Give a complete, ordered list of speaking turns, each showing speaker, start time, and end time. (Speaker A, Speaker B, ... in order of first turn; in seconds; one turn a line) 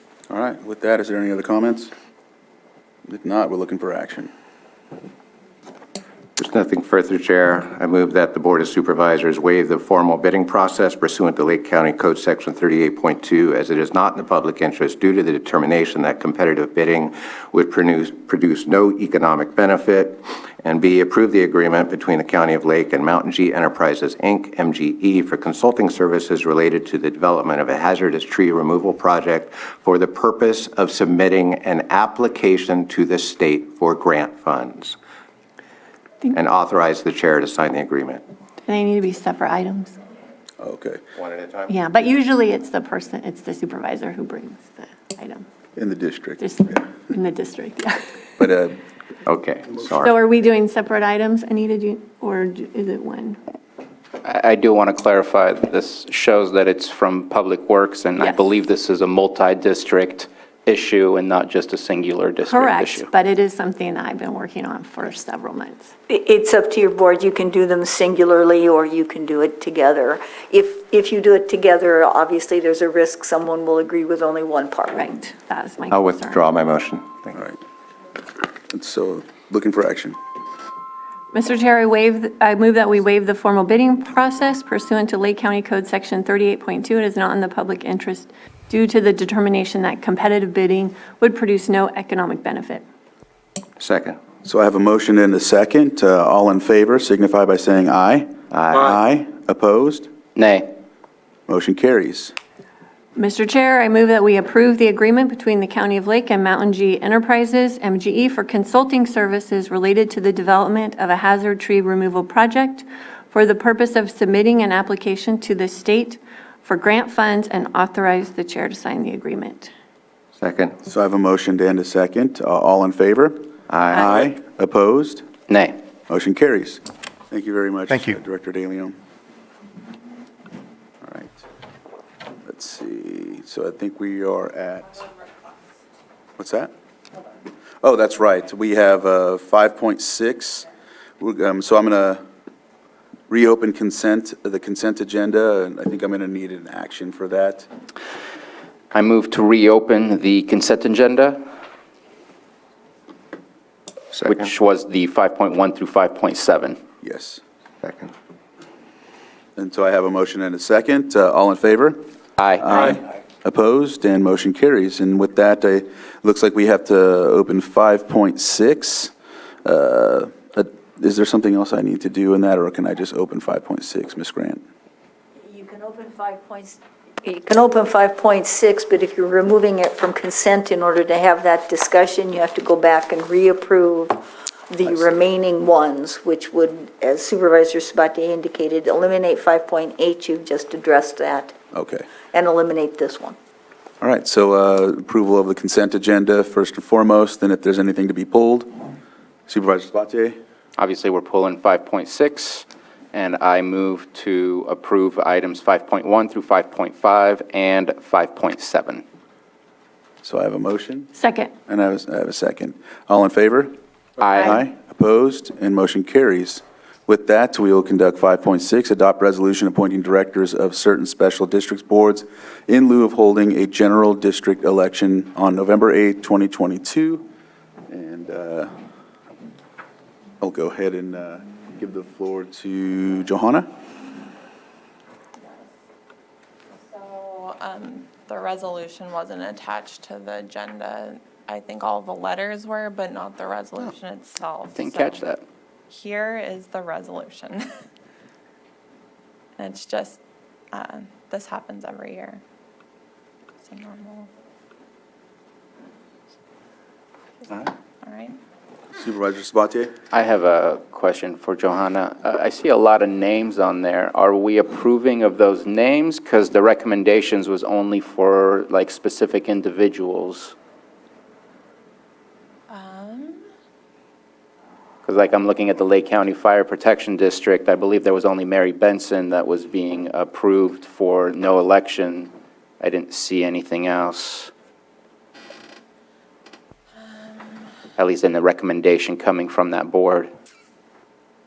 Speaker A: 0.3-1.9
Speaker A: 3.1-4.3
Speaker B: 6.4-35.0
Speaker B: 36.4-38.2
Speaker C: 38.6-39.9
Speaker A: 40.6-41.0
Speaker B: 41.2-41.7
Speaker C: 41.7-45.4
Speaker A: 45.8-46.8
Speaker C: 46.4-48.1
Speaker A: 48.4-48.8
Speaker B: 49.3-50.1
Speaker C: 50.0-53.4
Speaker D: 54.2-63.1
Speaker C: 58.2-58.5
Speaker C: 62.5-65.9
Speaker E: 66.1-75.1
Speaker C: 75.0-76.4
Speaker B: 75.9-77.1
Speaker A: 78.7-80.2
Speaker C: 81.3-92.8
Speaker B: 93.8-94.2
Speaker A: 94.4-100.1
Speaker B: 98.5-98.8
Speaker D: 100.4-100.7
Speaker A: 101.5-102.3
Speaker C: 103.2-119.7
Speaker B: 120.4-120.8
Speaker A: 120.8-125.3
Speaker B: 123.7-124.0
Speaker D: 125.5-125.8
Speaker A: 126.1-129.0
Speaker A: 131.0-131.4
Speaker A: 132.4-135.1
Speaker A: 136.4-136.7
Speaker A: 137.8-140.7
Speaker A: 141.2-142.2
Speaker A: 143.3-147.7
Speaker D: 148.9-151.4
Speaker D: 154.3-156.8
Speaker A: 157.0-157.4
Speaker A: 159.6-162.0
Speaker D: 162.4-162.8
Speaker A: 162.6-169.1
Speaker A: 169.6-174.6
Speaker E: 175.4-191.5
Speaker A: 191.7-192.1
Speaker E: 192.3-193.4
Speaker A: 194.0-198.7
Speaker A: 199.5-200.4
Speaker D: 200.8-209.0
Speaker A: 210.2-211.1
Speaker C: 211.2-211.5
Speaker A: 211.7-213.8
Speaker D: 214.2-214.5
Speaker A: 214.4-227.2
Speaker A: 227.9-228.7
Speaker A: 230.4-233.7
Speaker F: 236.7-245.2
Speaker D: 244.7-245.4
Speaker F: 245.9-247.7
Speaker F: 249.6-250.2
Speaker F: 250.7-252.4
Speaker F: 253.7-254.3
Speaker F: 257.4-258.4
Speaker A: 259.0-259.9
Speaker D: 260.1-270.5
Speaker F: 272.7-273.4
Speaker D: 275.0-284.5
Speaker D: 288.0-290.3